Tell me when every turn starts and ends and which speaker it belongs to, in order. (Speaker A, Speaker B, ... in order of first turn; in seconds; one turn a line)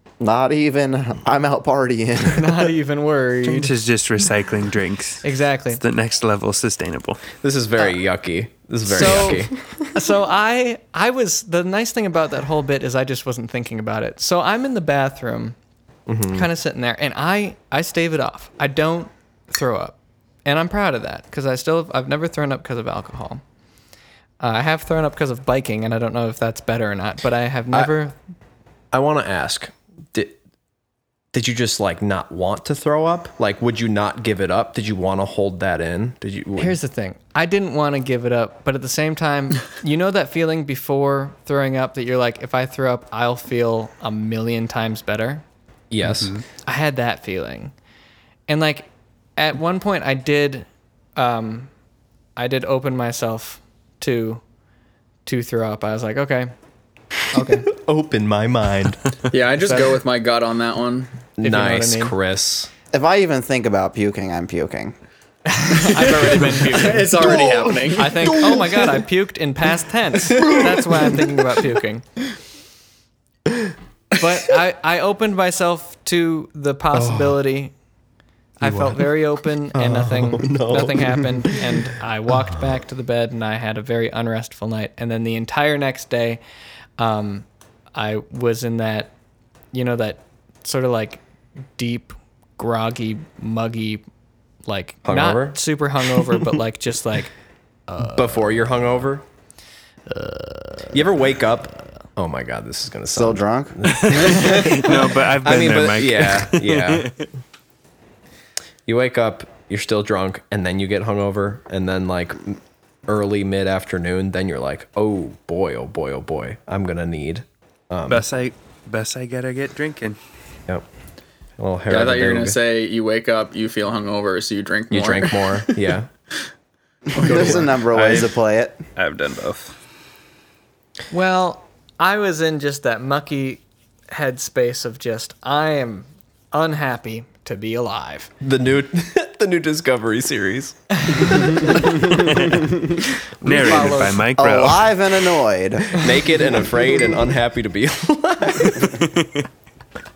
Speaker A: 0.2-2.7
Speaker B: 2.3-3.7
Speaker C: 3.5-7.3
Speaker B: 5.2-5.8
Speaker D: 7.4-9.9
Speaker B: 8.9-15.6
Speaker D: 16.1-16.5
Speaker B: 16.3-23.4
Speaker B: 24.4-28.1
Speaker D: 28.9-30.4
Speaker D: 31.3-36.8
Speaker B: 36.6-45.4
Speaker D: 45.9-46.4
Speaker C: 46.0-46.4
Speaker B: 46.6-47.7
Speaker B: 48.5-51.7
Speaker B: 52.4-54.4
Speaker B: 55.3-56.5
Speaker B: 57.3-57.7
Speaker D: 57.4-59.1
Speaker E: 59.3-61.2
Speaker B: 59.6-60.0
Speaker D: 61.4-62.7
Speaker B: 61.4-62.1
Speaker A: 62.9-65.0
Speaker B: 65.5-67.4
Speaker E: 66.7-68.2
Speaker D: 67.2-67.7
Speaker B: 67.9-72.1
Speaker D: 68.2-69.0
Speaker B: 74.2-77.7
Speaker B: 78.6-86.4
Speaker D: 79.7-81.8
Speaker B: 87.0-89.1
Speaker B: 89.7-91.2
Speaker B: 91.8-94.0
Speaker B: 94.7-97.3
Speaker D: 95.0-95.6
Speaker B: 97.9-98.8
Speaker D: 98.0-99.2
Speaker B: 100.1-101.0
Speaker D: 100.9-107.1
Speaker A: 103.1-103.8
Speaker C: 103.9-107.2
Speaker D: 108.9-118.2
Speaker C: 118.1-120.2
Speaker D: 121.6-122.6
Speaker E: 121.9-125.7
Speaker D: 124.9-126.1
Speaker A: 127.1-128.8
Speaker D: 127.2-127.7
Speaker C: 127.9-128.4
Speaker C: 129.0-129.8
Speaker B: 131.1-138.3
Speaker D: 138.4-142.0
Speaker B: 141.1-141.4
Speaker C: 142.2-142.7
Speaker B: 143.4-144.3
Speaker C: 143.4-144.9
Speaker A: 144.4-146.0
Speaker D: 145.9-149.1